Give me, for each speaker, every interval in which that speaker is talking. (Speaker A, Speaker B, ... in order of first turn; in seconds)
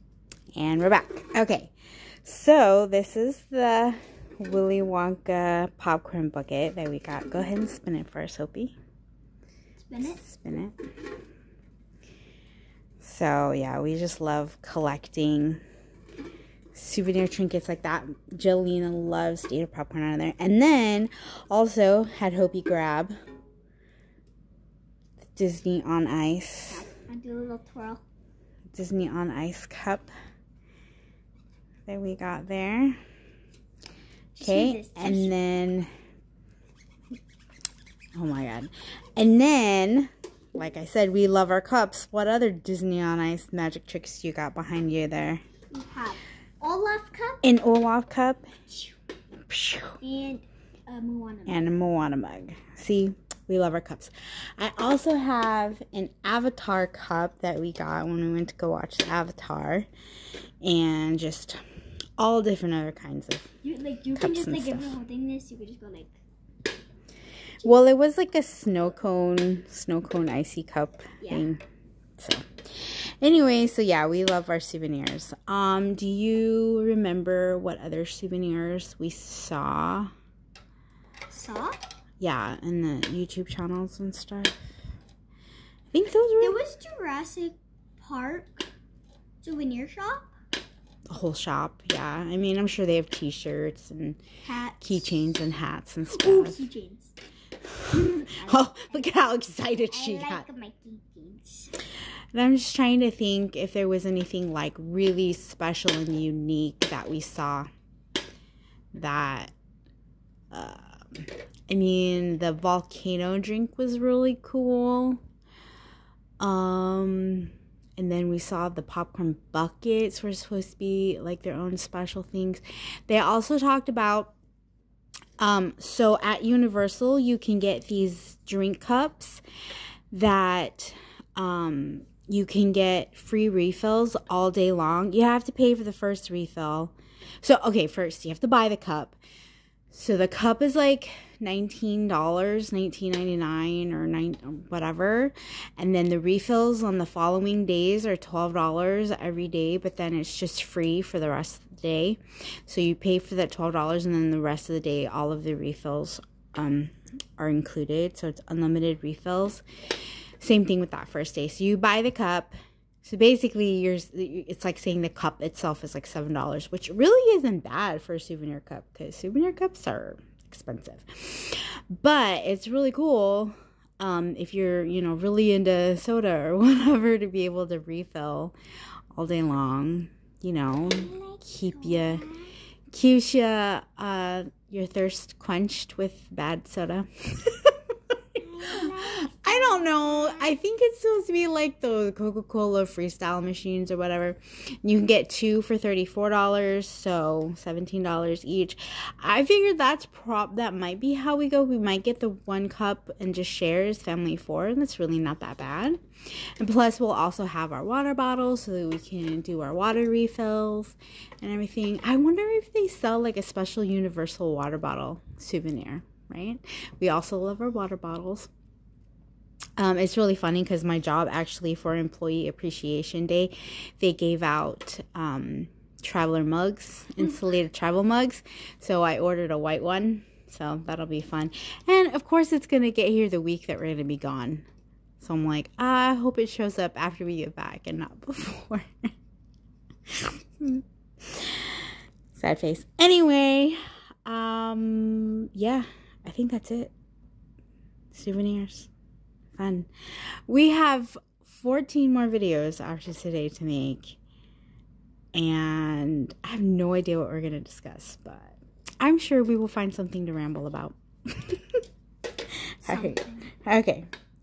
Speaker A: 0.5-1.7, 2.2-8.7, 10.0-10.8, 13.0-15.6, 16.7-23.1, 25.3-26.9, 28.7-30.1, 31.9-33.0, 34.4-35.9, 38.1-45.4, 47.4-48.5, 49.5-50.0, 51.5-59.9, 60.6-61.6, 62.2-63.5, 64.1-65.0, 67.6-71.6, 72.2-80.1, 82.2-84.5, 85.9-86.6, 91.1-94.2, 94.8-96.7, 97.7-100.4, 102.3-107.7, 108.9-109.5, 110.5-115.2, 116.4-124.3, 125.4-129.4, 130.1-139.2, 139.9-159.6, 160.4-178.5, 179.1-182.2, 182.9-187.8, 188.6-206.0, 206.6-218.5, 219.8-234.6, 235.2-239.1, 240.1-241.8, 242.3-246.9, 248.1-248.9, 249.6-249.9, 250.5-254.2, 255.3-261.8, 262.8-264.1
Speaker B: 9.8-10.2, 26.7-28.0, 34.3-35.3, 45.7-47.4, 50.0-51.8, 63.6-66.2, 71.2-71.5, 81.3-81.8, 86.4-88.7, 89.4-90.3, 94.4-95.2, 96.1-97.1, 98.0-99.1, 99.9-101.7, 180.8-182.5, 188.4-190.5, 262.8-263.5